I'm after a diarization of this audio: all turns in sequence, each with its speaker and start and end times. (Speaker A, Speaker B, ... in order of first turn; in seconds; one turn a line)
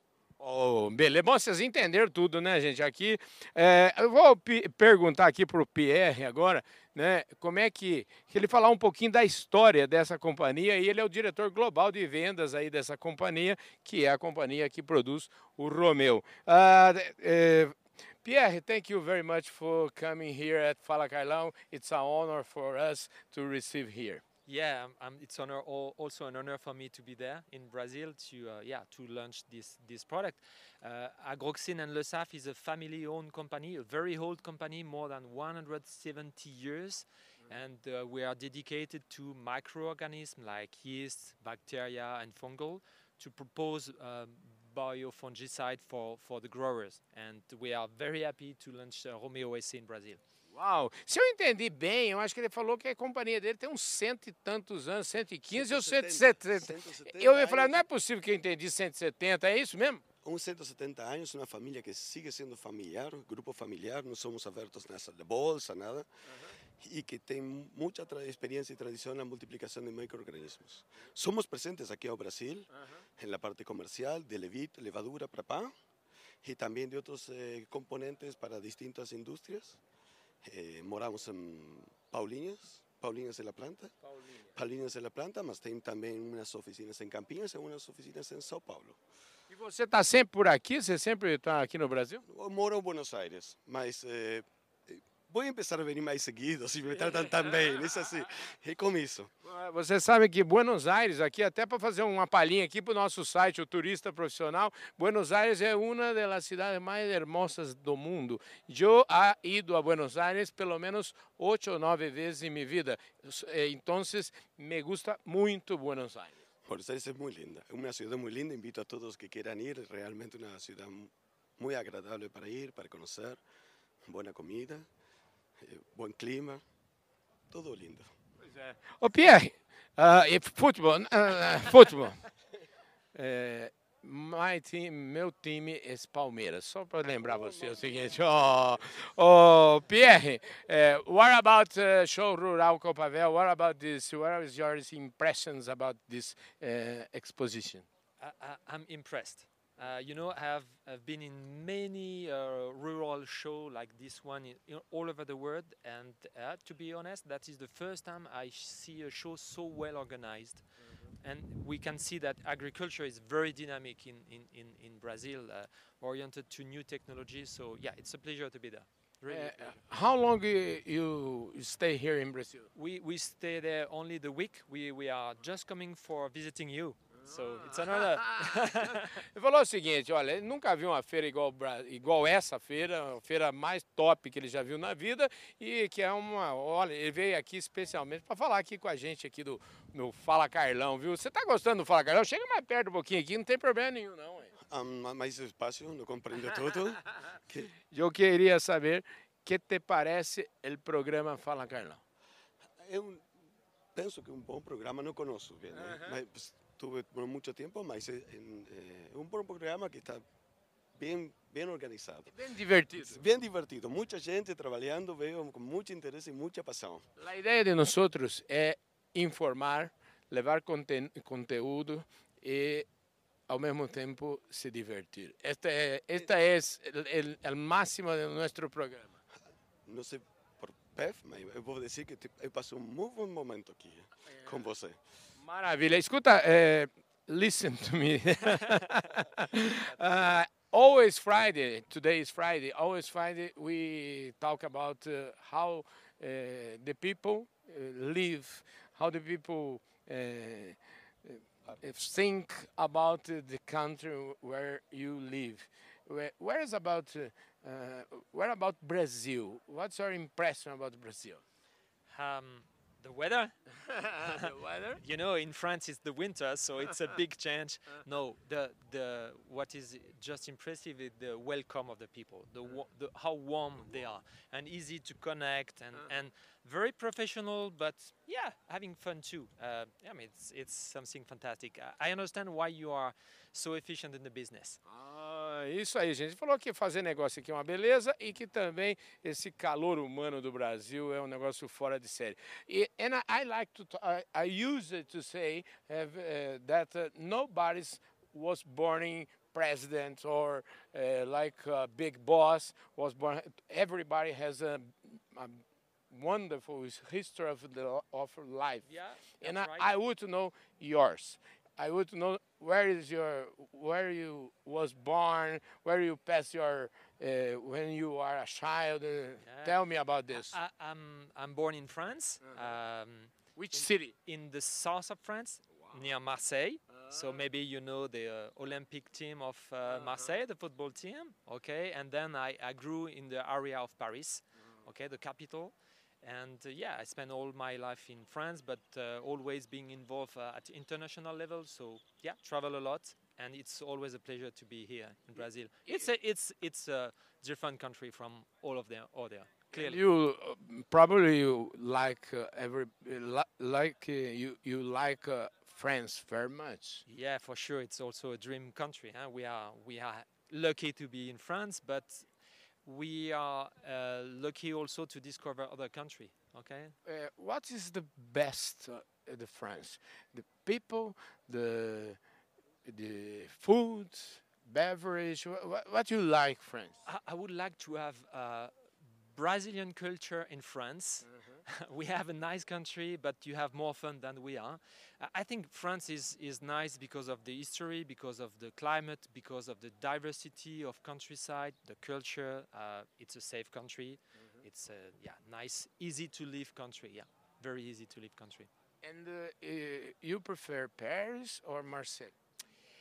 Speaker A: 0.4-24.2
Speaker B: 24.4-50.2
Speaker A: 50.5-60.0
Speaker C: 55.5-57.8
Speaker C: 60.2-66.1
Speaker C: 66.8-75.7
Speaker A: 72.8-73.0
Speaker C: 76.4-79.8
Speaker C: 80.4-83.9
Speaker C: 84.5-89.0
Speaker A: 89.5-92.2
Speaker C: 92.3-99.3
Speaker A: 99.4-116.4
Speaker C: 116.7-123.4
Speaker C: 124.0-124.9
Speaker C: 125.6-126.6
Speaker C: 127.5-128.1
Speaker A: 128.5-132.2
Speaker A: 133.1-147.8
Speaker C: 137.1-138.4
Speaker B: 148.2-160.6
Speaker B: 161.2-169.7
Speaker A: 169.3-172.7
Speaker B: 172.7-179.1
Speaker A: 177.3-178.0
Speaker A: 179.3-194.5
Speaker C: 194.7-197.7
Speaker A: 197.9-202.0
Speaker C: 202.8-203.2
Speaker C: 203.9-210.2
Speaker A: 205.7-206.1
Speaker C: 210.9-212.3
Speaker A: 212.3-213.2
Speaker C: 213.0-217.1
Speaker A: 217.2-222.9
Speaker A: 223.5-229.1
Speaker C: 229.8-235.0
Speaker A: 235.4-261.4
Speaker B: 262.1-263.5
Speaker A: 263.9-265.0
Speaker B: 264.2-284.8
Speaker A: 284.9-308.9
Speaker B: 308.8-309.9
Speaker A: 309.4-320.5
Speaker B: 319.4-319.8
Speaker B: 320.3-350.0
Speaker A: 323.6-324.1
Speaker A: 326.9-327.4
Speaker A: 329.9-330.3
Speaker A: 349.7-357.0
Speaker B: 357.1-362.3
Speaker B: 362.8-366.9
Speaker A: 367.1-372.2
Speaker A: 372.8-377.0
Speaker B: 377.0-378.7
Speaker B: 379.3-398.7
Speaker A: 399.0-402.3